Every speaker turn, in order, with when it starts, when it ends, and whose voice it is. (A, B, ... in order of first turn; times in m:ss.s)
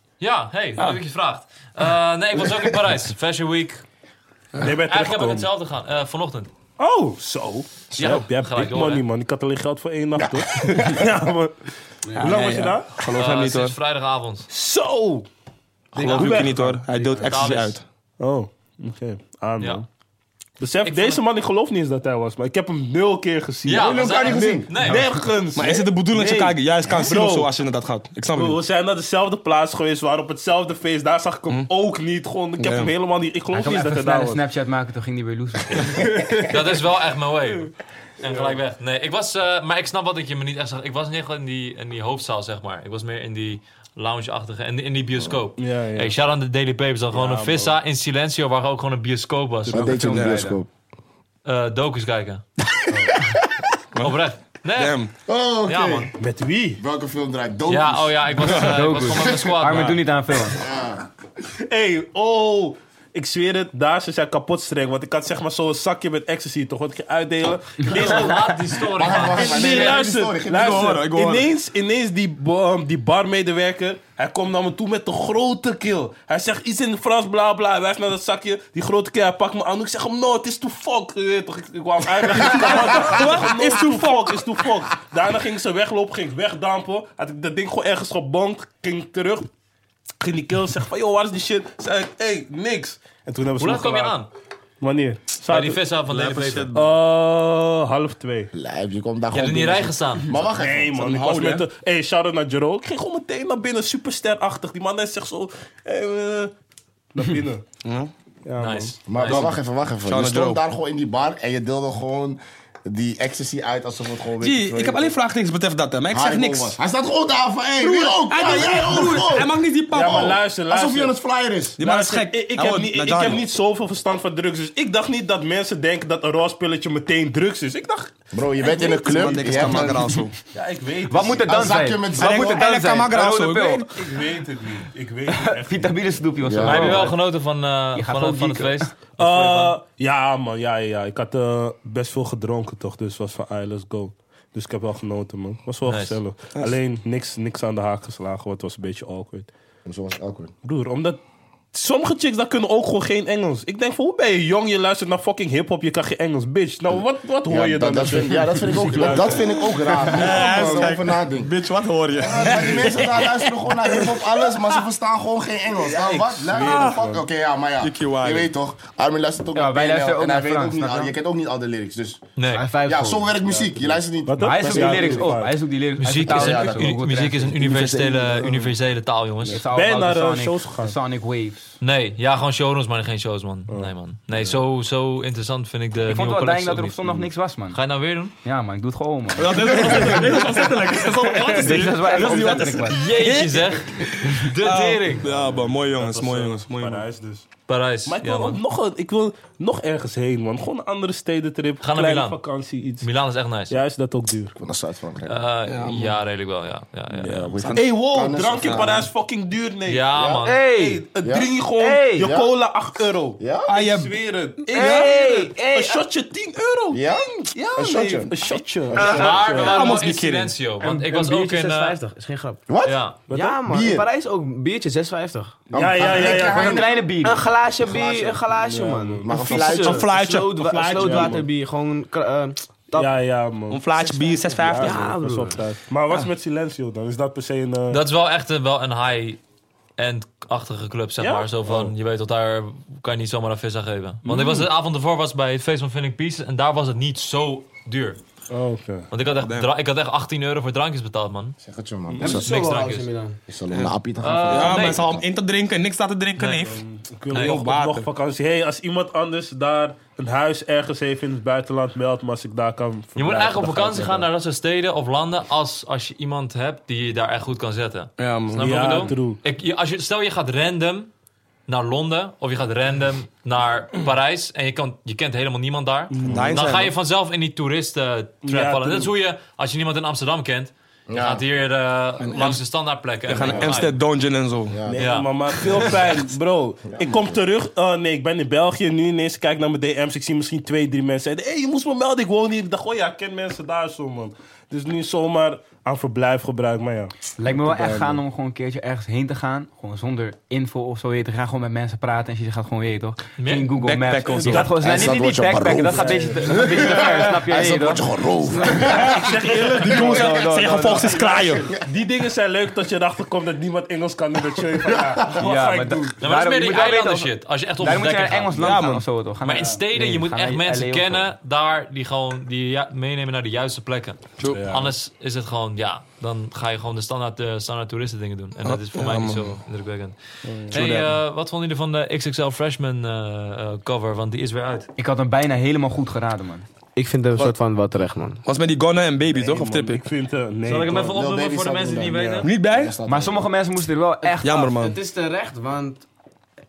0:00.2-0:03.8 A
0:04.6-0:05.5 B
0:04.9-0:06.5 A
0:06.8-0:11.6 B
0:08.0-0:09.0 A
0:10.2-0:11.0 C
0:12.0-0:12.5 D
0:12.2-0:12.9 B
0:12.2-0:13.8 E
0:13.1-0:14.5 A
0:14.5-0:15.3 B
0:15.9-0:17.5 D
0:16.0-0:17.8 E
0:16.0-0:16.8 B
0:17.2-0:17.8 A
0:18.2-0:19.9 B
0:20.6-0:27.5 B
0:20.8-0:21.2 A
0:23.6-0:25.1 A
0:23.8-0:24.8 C
0:24.4-0:25.0 E
0:25.5-0:28.6 E
0:28.3-0:34.4 B
0:32.6-0:32.9 E
0:33.5-0:36.1 F
0:35.8-0:36.6 B
0:36.5-0:49.9 A
0:38.3-0:38.6 B
0:45.6-0:46.1 B
0:47.1-0:47.8 B
0:49.7-0:50.7 C
0:49.7-0:50.6 F
0:50.1-0:50.4 E
0:51.4-0:52.4 A
0:54.0-0:55.1 A
0:54.8-0:55.1 E
0:55.3-0:56.1 C
0:55.7-0:56.1 A
0:56.2-0:56.8 B
0:56.8-0:58.3 C
0:57.7-1:00.0 A
0:58.4-0:58.8 E
0:58.5-1:00.6 F
0:59.7-1:00.0 E
1:00.5-1:01.0 C
1:01.6-1:29.5 B
1:07.8-1:10.0 A
1:09.0-1:11.0 C
1:10.5-1:11.5 E
1:22.3-1:24.4 E
1:30.2-1:34.2 B
1:33.6-1:34.3 A
1:34.8-1:35.8 B
1:35.5-1:36.7 A
1:36.1-1:36.9 E
1:36.7-1:38.5 B
1:38.5-1:41.1 C
1:39.3-1:40.3 A
1:40.6-1:46.5 B
1:41.0-1:41.7 E
1:47.1-1:47.6 B
1:47.8-1:48.1 E
1:48.5-1:48.9 B
1:48.6-1:49.6 A
1:49.0-1:55.2 C
1:50.0-1:50.6 E
1:54.4-1:56.8 E
1:56.1-2:01.8 C
1:57.8-2:00.4 E
1:59.9-2:01.2 B
2:01.8-2:03.4 E
2:01.8-2:08.2 B
2:08.3-2:10.2 C
2:08.6-2:10.3 E
2:10.5-2:11.5 B
2:11.1-2:13.9 F
2:11.3-2:12.6 C
2:12.2-2:13.9 E
2:13.9-2:16.2 B
2:15.3-2:17.2 F
2:16.4-2:17.1 C
2:16.6-2:19.7 A
2:17.9-2:18.9 F
2:19.2-2:29.5 B
2:25.9-2:26.2 A
2:29.8-2:30.5 C
2:30.6-2:31.2 B
2:31.7-2:40.8 B
2:36.9-2:41.5 C
2:40.1-2:44.8 E
2:42.2-2:52.2 C
2:42.4-2:42.9 B
2:46.0-2:47.2 B
2:46.4-2:47.1 E
2:47.8-2:48.5 E
2:49.6-2:51.1 F
2:52.4-2:52.7 A
2:52.5-2:54.0 D
2:52.8-2:55.3 C
2:54.3-2:55.6 B
2:54.4-2:57.6 F
2:56.0-2:59.6 A
2:56.2-2:58.7 C
2:59.5-3:01.7 F
2:59.6-3:01.0 B
3:01.8-3:08.3 A
3:03.7-3:03.9 B
3:06.1-3:07.8 F
3:08.4-3:10.4 F
3:09.4-3:17.0 E
3:10.0-3:10.4 B
3:11.4-3:13.0 F
3:12.9-3:15.3 A
3:15.4-3:17.5 B
3:17.7-3:18.6 A
3:18.1-3:23.1 B
3:21.8-3:22.4 A
3:23.0-3:23.8 A
3:23.7-3:24.6 B
3:24.6-3:25.4 C
3:25.3-3:27.5 A
3:25.7-3:26.2 E
3:27.2-3:40.0 B
3:27.5-3:29.1 C
3:27.6-3:27.9 E
3:28.6-3:28.9 E
3:29.9-3:30.6 A
3:30.2-3:30.5 C
3:30.4-3:31.0 D
3:31.2-3:31.6 C
3:31.8-3:32.2 D
3:31.9-3:32.2 F
3:32.2-3:32.5 C
3:33.4-3:33.9 C
3:33.7-3:35.2 E
3:34.7-3:36.0 D
3:36.9-3:38.4 C
3:38.9-3:39.4 C
3:39.0-3:42.0 A
3:39.5-3:40.5 E
3:40.8-3:42.6 D
3:42.7-3:43.1 C
3:42.8-3:43.2 A
3:43.3-3:44.0 B
3:43.3-3:45.7 D
3:45.7-3:47.1 C
3:45.7-3:46.8 B
3:46.0-3:47.4 F
3:47.2-3:53.1 D
3:47.8-3:48.4 C
3:48.6-3:49.6 B
3:49.2-3:50.1 C
3:49.5-3:51.4 E
3:50.9-3:51.4 B
3:53.0-3:53.8 B
3:53.7-3:55.1 E
3:54.2-3:55.6 D
3:54.6-3:58.0 B
3:57.9-3:59.4 A
4:00.0-4:08.2 A
4:01.2-4:01.9 B
4:04.3-4:04.7 B
4:08.5-4:09.1 B
4:09.1-4:11.6 A
4:09.4-4:09.7 E
4:11.6-4:12.5 C
4:12.2-4:13.4 D
4:12.2-4:13.1 A
4:13.5-4:15.3 C
4:14.2-4:15.1 A
4:14.5-4:16.8 E
4:16.4-4:16.7 A
4:16.6-4:24.2 B
4:17.3-4:17.6 A
4:17.3-4:18.1 E
4:23.2-4:31.1 A
4:28.2-4:29.1 E
4:28.5-4:29.4 B
4:31.7-4:44.0 A
4:36.1-4:36.6 B
4:36.3-4:36.9 E
4:38.4-4:39.1 B
4:41.1-4:41.4 C
4:42.2-4:42.6 E
4:43.3-4:44.8 E
4:43.4-4:43.8 C
4:44.7-4:45.2 C
4:44.9-4:57.1 B
4:45.0-4:45.3 A
4:45.7-4:46.0 E
4:46.9-4:47.4 C
4:57.4-5:08.7 F
4:57.5-4:58.2 C
5:03.4-5:03.7 A
5:03.8-5:04.8 E
5:04.3-5:05.2 B
5:04.8-5:10.7 C
5:05.9-5:06.7 B
5:08.5-5:09.0 D
5:08.8-5:10.8 B
5:08.9-5:11.7 E
5:09.8-5:11.2 F
5:11.5-5:16.2 B
5:11.6-5:11.8 C
5:14.8-5:15.4 C
5:15.3-5:21.3 F
5:16.2-5:18.8 A
5:18.6-5:19.0 E
5:19.4-5:34.9 A
5:24.5-5:24.9 B
5:28.6-5:29.5 E
5:30.5-5:30.8 B
5:30.7-5:31.1 E
5:35.0-5:36.7 F
5:37.0-5:38.4 D
5:38.4-5:40.0 E
5:39.4-5:41.2 B
5:40.6-5:42.5 A
5:41.0-5:43.5 C
5:42.2-5:42.5 B
5:42.4-5:43.0 E
5:43.1-5:44.6 F
5:44.2-5:46.1 D
5:44.4-5:45.0 E